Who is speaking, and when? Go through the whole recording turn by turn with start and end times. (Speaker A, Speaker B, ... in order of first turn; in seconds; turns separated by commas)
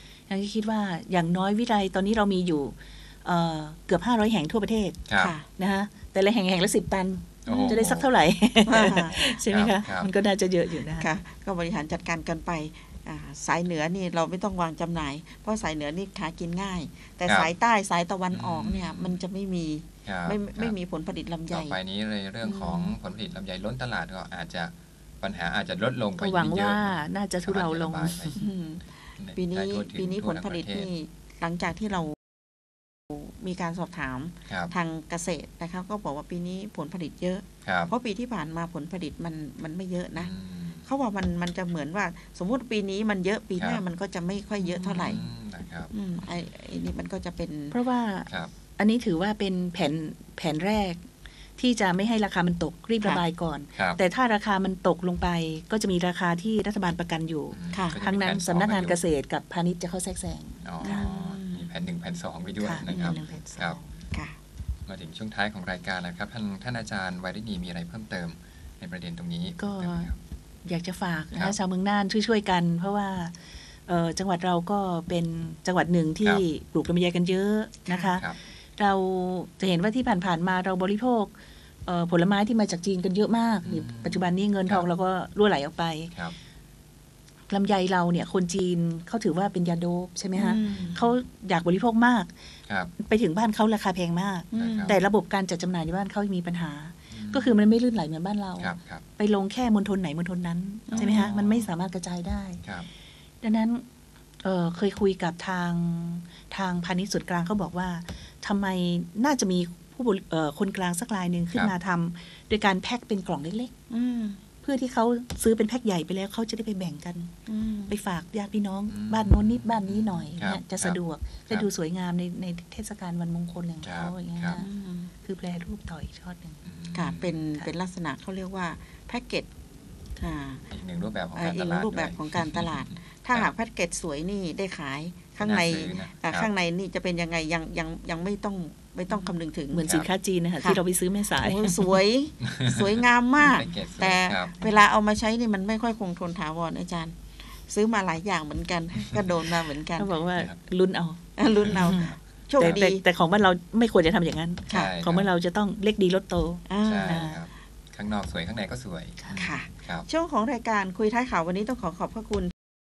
Speaker A: 0.3-5.0, Speaker B: 5.1-5.3, Speaker C: 5.2-5.5, Speaker A: 5.6-11.1, Speaker C: 7.5-7.8, Speaker B: 7.5-8.1, Speaker C: 8.7-9.3, Speaker B: 9.5-10.1, Speaker C: 11.0-21.8, Speaker B: 17.2-17.5, Speaker B: 18.3-19.2, Speaker B: 20.0-20.8, Speaker B: 21.5-28.4, Speaker C: 22.4-22.9, Speaker A: 26.2-28.4, Speaker C: 28.4-28.8, Speaker B: 29.2-30.9, Speaker C: 29.4-32.1, Speaker C: 33.1-40.3, Speaker B: 37.6-37.9, Speaker B: 40.1-40.9, Speaker C: 40.8-45.2, Speaker B: 44.7-46.5, Speaker A: 44.9-45.1, Speaker C: 45.9-47.8, Speaker A: 47.7-51.0, Speaker B: 48.3-48.5, Speaker A: 51.6-61.1, Speaker B: 57.5-59.0, Speaker B: 60.6-63.8, Speaker C: 60.8-61.7, Speaker A: 62.6-64.0, Speaker C: 62.9-63.2, Speaker B: 64.9-70.2, Speaker A: 69.6-70.1, Speaker A: 70.6-73.3, Speaker A: 73.9-81.3, Speaker C: 77.9-78.1, Speaker A: 81.8-86.1, Speaker B: 83.6-84.8, Speaker A: 87.5-92.3, Speaker C: 90.3-91.0, Speaker B: 90.6-91.0, Speaker A: 93.0-102.6, Speaker C: 94.5-95.0, Speaker B: 94.5-95.0, Speaker B: 97.1-97.6, Speaker B: 98.6-99.0, Speaker C: 100.9-101.3, Speaker B: 100.9-101.7, Speaker A: 103.4-103.8, Speaker A: 104.4-113.7, Speaker C: 113.9-114.4, Speaker A: 114.6-117.3, Speaker C: 117.5-117.9, Speaker A: 117.9-124.7, Speaker B: 118.9-121.0, Speaker B: 123.8-124.6, Speaker C: 124.6-125.1, Speaker A: 125.2-126.6, Speaker B: 126.6-127.4, Speaker C: 126.9-129.5, Speaker C: 130.2-130.6, Speaker B: 130.7-133.5, Speaker C: 131.3-139.9, Speaker B: 135.4-136.5, Speaker A: 139.7-141.9, Speaker B: 139.8-140.1, Speaker C: 141.4-150.1, Speaker B: 142.4-144.6, Speaker A: 150.0-157.4, Speaker C: 151.4-153.0, Speaker B: 151.6-152.0, Speaker B: 154.7-155.3, Speaker C: 156.7-157.4, Speaker B: 156.8-160.1, Speaker C: 159.3-162.5